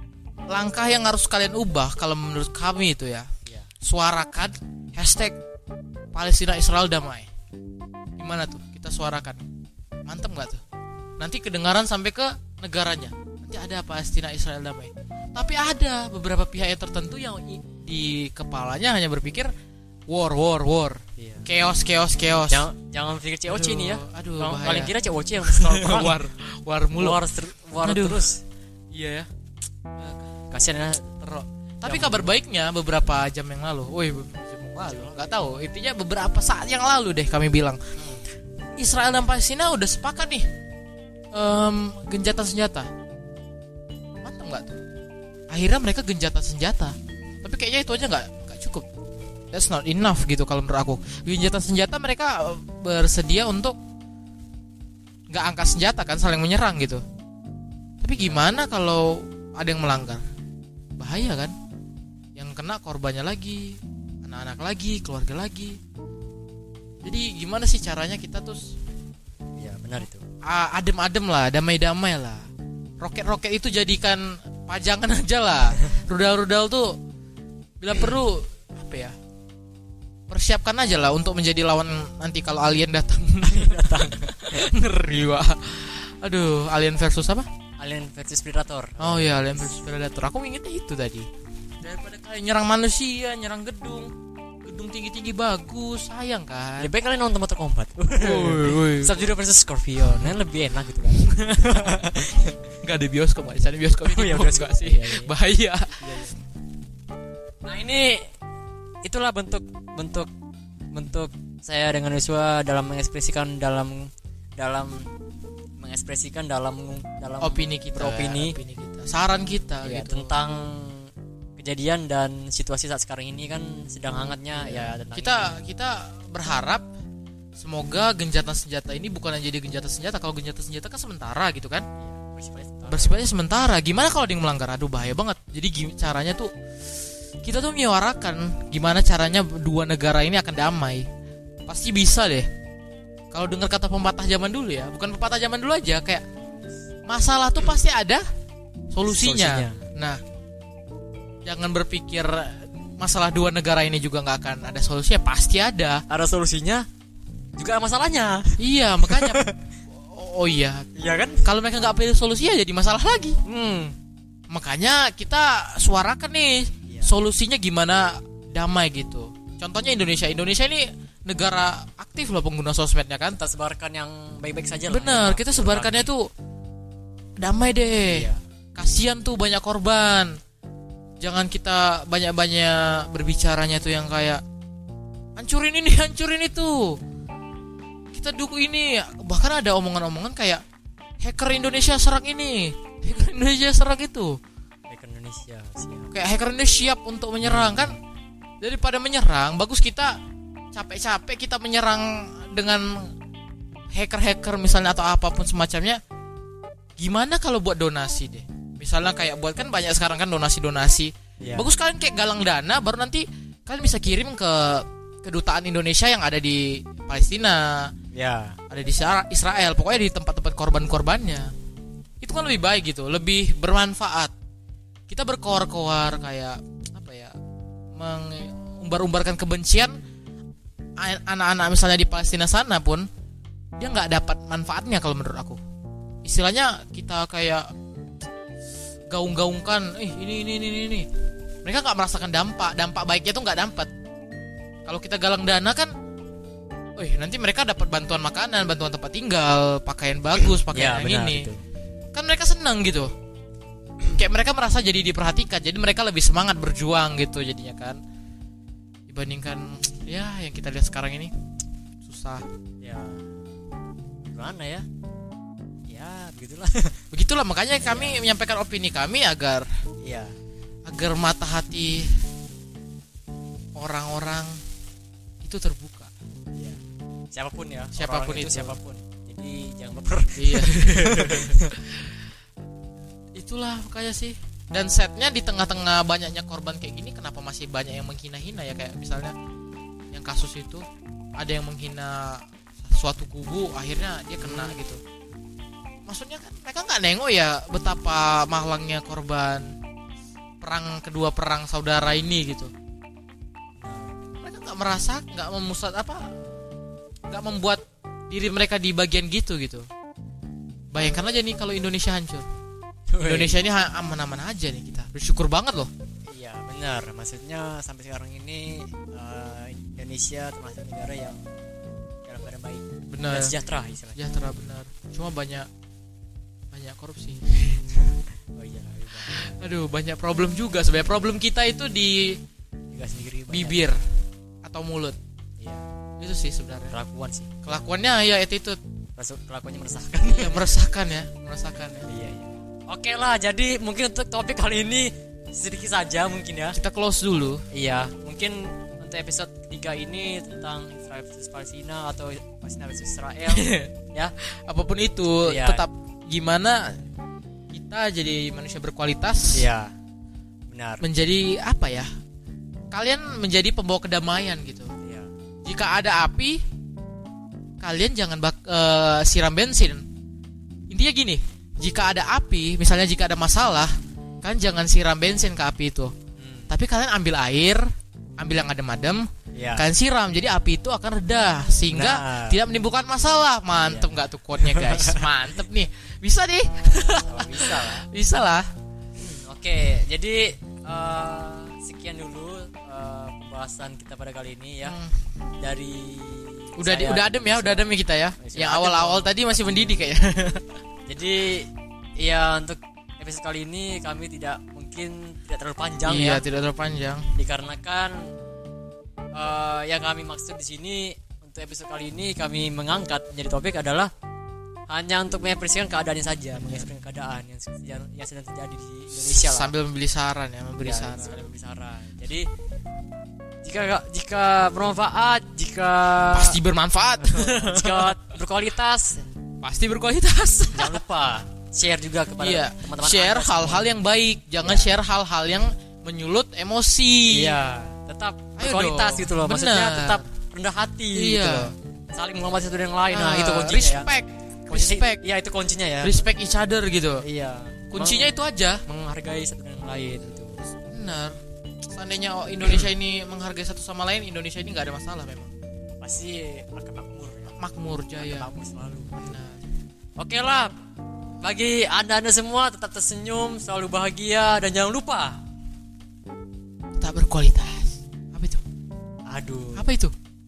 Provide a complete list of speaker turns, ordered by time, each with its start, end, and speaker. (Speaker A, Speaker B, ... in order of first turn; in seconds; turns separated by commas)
Speaker A: 0.5-3.3, Speaker A: 3.8-5.3, Speaker A: 6.1-7.3, Speaker A: 8.2-9.4, Speaker A: 10.1-10.6, Speaker A: 11.2-19.5, Speaker A: 20.1-22.7, Speaker B: 21.2-21.5, Speaker B: 22.5-26.2, Speaker A: 23.5-27.2, Speaker B: 26.9-28.4, Speaker A: 27.8-28.3, Speaker A: 28.9-29.3, Speaker A: 30.0-30.2, Speaker B: 30.5-32.3, Speaker A: 31.8-37.8, Speaker B: 34.8-35.5, Speaker B: 38.0-38.2, Speaker A: 38.8-40.5, Speaker A: 41.3-42.9, Speaker A: 44.2-44.8, Speaker A: 45.5-48.9, Speaker A: 49.5-53.8, Speaker A: 55.3-57.0, Speaker A: 58.0-60.2, Speaker B: 58.2-58.4, Speaker A: 61.0-61.5, Speaker A: 62.4-65.8, Speaker A: 67.0-68.7, Speaker B: 69.6-70.2, Speaker A: 70.4-72.4, Speaker A: 73.0-76.9, Speaker A: 77.8-79.1, Speaker A: 80.3-87.5, Speaker B: 83.4-84.6, Speaker B: 87.8-89.8, Speaker A: 89.0-91.3, Speaker A: 91.8-94.1, Speaker A: 94.6-96.9, Speaker B: 96.8-102.5, Speaker A: 98.1-99.3, Speaker A: 101.1-102.0, Speaker A: 102.8-106.3, Speaker B: 104.0-105.3, Speaker B: 106.0-106.4, Speaker B: 107.6-108.2, Speaker B: 109.0-110.3, Speaker B: 110.9-115.1, Speaker B: 115.8-118.5, Speaker A: 117.4-120.4, Speaker B: 119.8-125.5, Speaker A: 124.5-126.8, Speaker A: 127.5-131.8, Speaker B: 132.0-133.2, Speaker A: 132.8-136.5, Speaker A: 137.4-141.1, Speaker A: 141.7-142.5, Speaker A: 143.3-146.2, Speaker A: 147.1-148.2, Speaker A: 148.9-150.2, Speaker B: 149.1-149.8, Speaker A: 151.4-156.0, Speaker B: 156.1-156.8, Speaker B: 157.6-159.6, Speaker A: 158.6-159.4, Speaker A: 159.9-160.9, Speaker B: 160.9-161.4, Speaker A: 161.4-163.4, Speaker B: 163.4-163.9, Speaker A: 164.5-173.4, Speaker B: 173.4-176.1, Speaker A: 174.9-176.3, Speaker A: 177.4-180.3, Speaker B: 178.1-178.4, Speaker A: 181.2-184.4, Speaker A: 185.4-187.0, Speaker A: 188.1-190.6, Speaker A: 191.2-194.4, Speaker B: 194.9-196.1, Speaker A: 196.1-198.0, Speaker B: 197.4-198.0, Speaker A: 198.6-200.2, Speaker A: 200.7-203.1, Speaker A: 203.9-206.0, Speaker A: 207.0-217.9, Speaker B: 211.4-211.7, Speaker B: 218.1-218.6, Speaker A: 218.7-221.5, Speaker A: 222.2-224.3, Speaker A: 225.1-227.3, Speaker A: 228.0-229.9, Speaker A: 231.0-233.1, Speaker A: 233.8-235.6, Speaker A: 236.2-237.7, Speaker A: 239.1-241.1, Speaker A: 241.6-243.9, Speaker A: 244.9-245.9, Speaker A: 247.0-251.5, Speaker B: 250.7-251.6, Speaker A: 252.1-253.1, Speaker A: 254.1-258.0, Speaker A: 259.1-261.3, Speaker A: 262.0-262.4, Speaker B: 262.8-263.3, Speaker B: 264.3-264.8, Speaker B: 265.9-266.9, Speaker A: 267.1-269.7, Speaker B: 267.8-268.2, Speaker B: 270.0-270.4, Speaker A: 270.9-272.1, Speaker A: 273.8-274.6, Speaker A: 275.4-276.1, Speaker B: 277.3-281.7, Speaker A: 277.9-278.8, Speaker A: 280.4-282.1, Speaker A: 283.3-289.3, Speaker A: 290.1-290.9, Speaker A: 291.4-295.0, Speaker B: 294.4-294.8, Speaker A: 296.1-299.7, Speaker A: 300.6-302.7, Speaker B: 303.8-304.1, Speaker A: 304.4-306.2, Speaker A: 307.3-309.9, Speaker A: 310.9-312.5, Speaker B: 313.1-313.6, Speaker A: 313.2-315.9, Speaker B: 316.3-321.4, Speaker B: 322.2-324.2, Speaker A: 323.1-323.5, Speaker A: 324.1-325.7, Speaker A: 326.7-327.8, Speaker B: 328.6-329.6, Speaker A: 329.2-332.4, Speaker B: 332.9-333.9, Speaker A: 333.5-334.0, Speaker A: 334.6-335.2, Speaker B: 335.6-335.8, Speaker A: 336.2-336.9, Speaker B: 336.9-337.8, Speaker A: 337.6-338.8, Speaker B: 339.2-340.7, Speaker A: 340.2-342.1, Speaker B: 342.1-346.8, Speaker A: 346.7-347.6, Speaker B: 347.7-354.3, Speaker A: 353.4-353.9, Speaker A: 354.4-357.0, Speaker B: 355.4-355.8, Speaker A: 357.7-359.7, Speaker B: 359.5-359.9, Speaker B: 360.7-361.0, Speaker A: 361.0-362.1, Speaker A: 362.9-364.9, Speaker B: 365.0-365.3, Speaker A: 365.6-366.6, Speaker A: 367.8-370.0, Speaker A: 370.9-376.1, Speaker B: 376.4-376.7, Speaker A: 376.7-377.9, Speaker A: 378.4-388.6, Speaker B: 379.5-379.9, Speaker B: 381.9-382.6, Speaker B: 383.8-385.2, Speaker B: 387.1-388.0, Speaker B: 389.2-395.0, Speaker A: 394.8-395.1, Speaker B: 395.6-397.9, Speaker A: 396.8-400.6, Speaker B: 398.4-400.1, Speaker B: 401.1-406.4, Speaker A: 406.0-407.2, Speaker B: 407.4-408.1, Speaker B: 409.3-414.1, Speaker B: 414.9-419.7, Speaker A: 416.5-416.9, Speaker A: 419.2-421.4, Speaker B: 420.8-422.5, Speaker B: 423.6-426.6, Speaker A: 426.3-428.1, Speaker B: 427.3-429.2, Speaker A: 429.6-431.0, Speaker B: 430.7-433.9, Speaker A: 432.4-437.6, Speaker B: 434.6-435.0, Speaker B: 437.3-444.1, Speaker A: 438.6-440.2, Speaker A: 441.1-441.7, Speaker A: 443.1-445.2, Speaker B: 444.7-446.2, Speaker A: 446.0-447.2, Speaker B: 447.2-448.3, Speaker A: 447.9-448.8, Speaker B: 448.9-450.6, Speaker A: 450.9-451.4, Speaker A: 451.9-455.5, Speaker B: 456.0-457.6, Speaker A: 457.6-458.5, Speaker B: 458.2-459.1, Speaker A: 459.1-459.6, Speaker B: 460.2-460.7, Speaker B: 461.4-465.4, Speaker A: 467.0-468.6, Speaker B: 469.3-469.9, Speaker A: 469.8-470.1